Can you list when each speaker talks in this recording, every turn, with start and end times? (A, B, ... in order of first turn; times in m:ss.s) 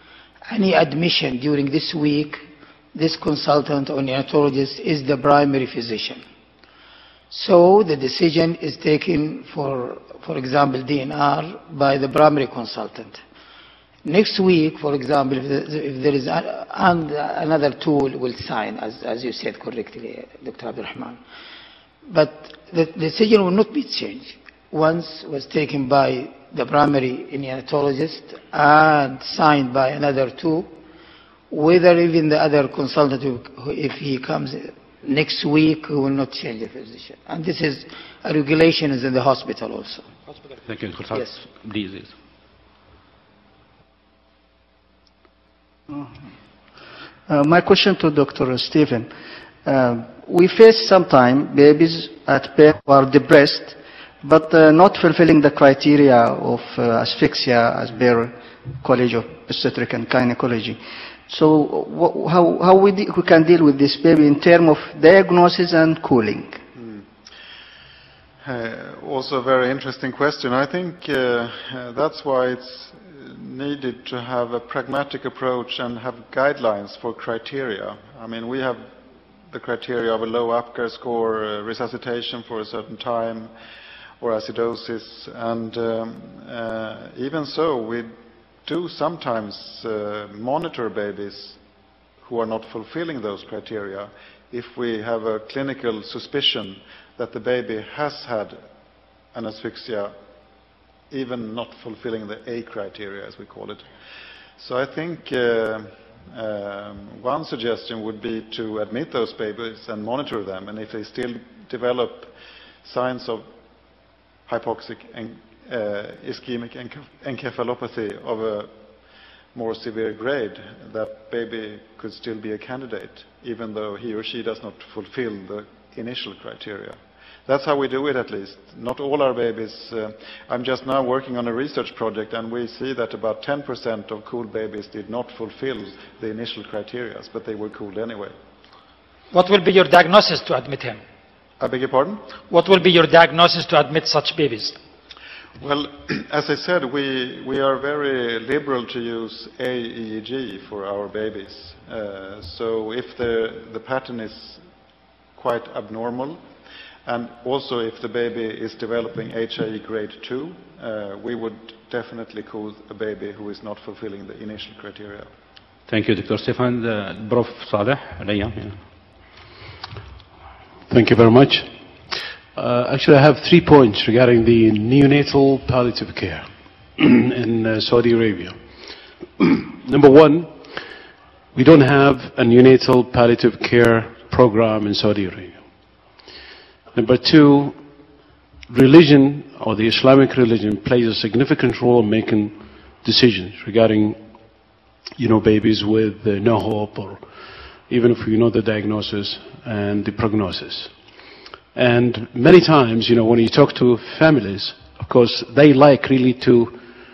0:00.5-0:06.2 A
0:07.3-0:13.2 A
0:14.0-0:21.2 A
0:22.0-0:30.7 A
0:31.5-0:40.0 A
0:40.6-0:42.1 B
0:47.3-0:49.1 C
0:49.6-1:06.6 C
1:06.8-1:07.0 D
1:08.4-1:18.9 D
1:19.5-1:23.5 D
1:24.2-1:28.1 D
1:28.6-1:31.6 D
1:32.2-1:38.6 D
1:39.3-1:40.1 D
1:41.1-1:43.9 D
1:44.6-1:53.5 D
1:54.5-1:58.7 D
1:59.5-2:18.3 D
2:19.3-2:21.0 E
2:21.6-2:22.2 D
2:22.5-2:24.8 E
2:25.6-2:34.6 D
2:35.4-2:36.4 D
2:37.0-2:45.3 D
2:45.9-2:48.8 B
2:50.9-2:51.7 F
2:52.5-2:58.6 F
2:59.4-3:00.7 F
3:01.5-3:05.6 F
3:06.9-3:07.8 F
3:08.7-3:14.2 F
3:15.2-3:17.2 F
3:17.9-3:20.9 F
3:21.7-3:26.8 F